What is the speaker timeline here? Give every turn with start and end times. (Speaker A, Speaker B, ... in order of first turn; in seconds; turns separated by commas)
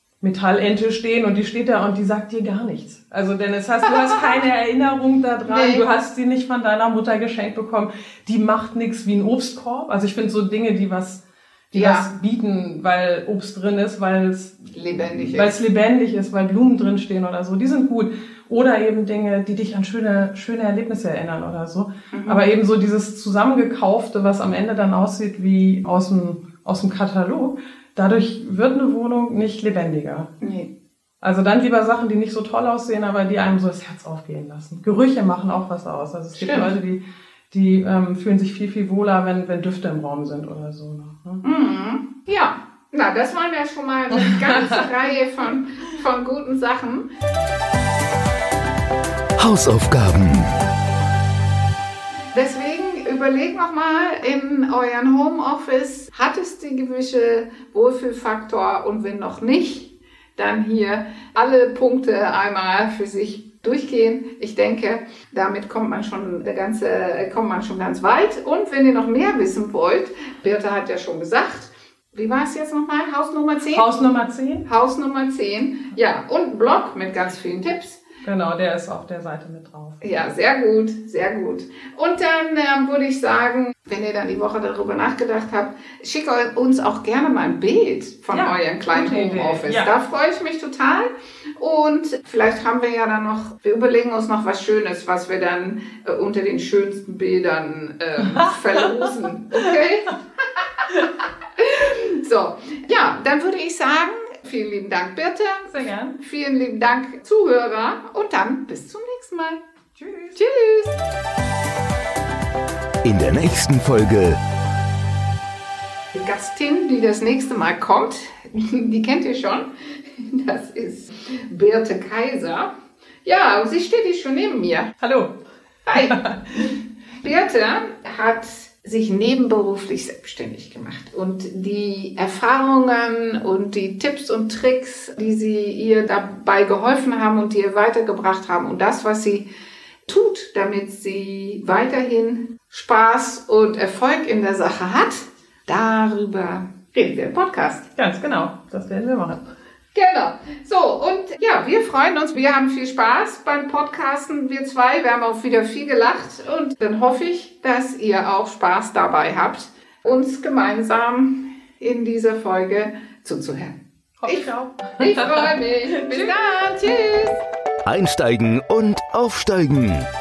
Speaker A: 0.2-30.3, Speaker B: 3.8-4.3, Speaker B: 5.5-5.8, Speaker B: 11.7-12.1, Speaker B: 14.7-15.5, Speaker B: 22.1-22.5, Speaker B: 30.4-30.7, Speaker A: 31.2-41.4, Speaker B: 36.4-36.7, Speaker B: 41.4-47.1, Speaker A: 44.2-44.9, Speaker C: 49.4-50.5, Speaker B: 52.3-73.9, Speaker A: 73.7-74.7, Speaker B: 74.7-78.0, Speaker A: 78.2-80.0, Speaker B: 80.0-109.6, Speaker A: 88.3-89.9, Speaker A: 98.3-98.8, Speaker A: 105.7-106.2, Speaker A: 110.0-110.4, Speaker B: 110.4-111.0, Speaker C: 113.0-114.4, Speaker B: 116.1-122.7, Speaker B: 123.2-124.9, Speaker A: 125.0-125.4, Speaker B: 125.9-139.5, Speaker A: 125.9-126.7, Speaker B: 140.1-147.9, Speaker A: 147.9-149.4, Speaker B: 149.9-167.4, Speaker A: 164.2-166.6, Speaker C: 167.8-170.1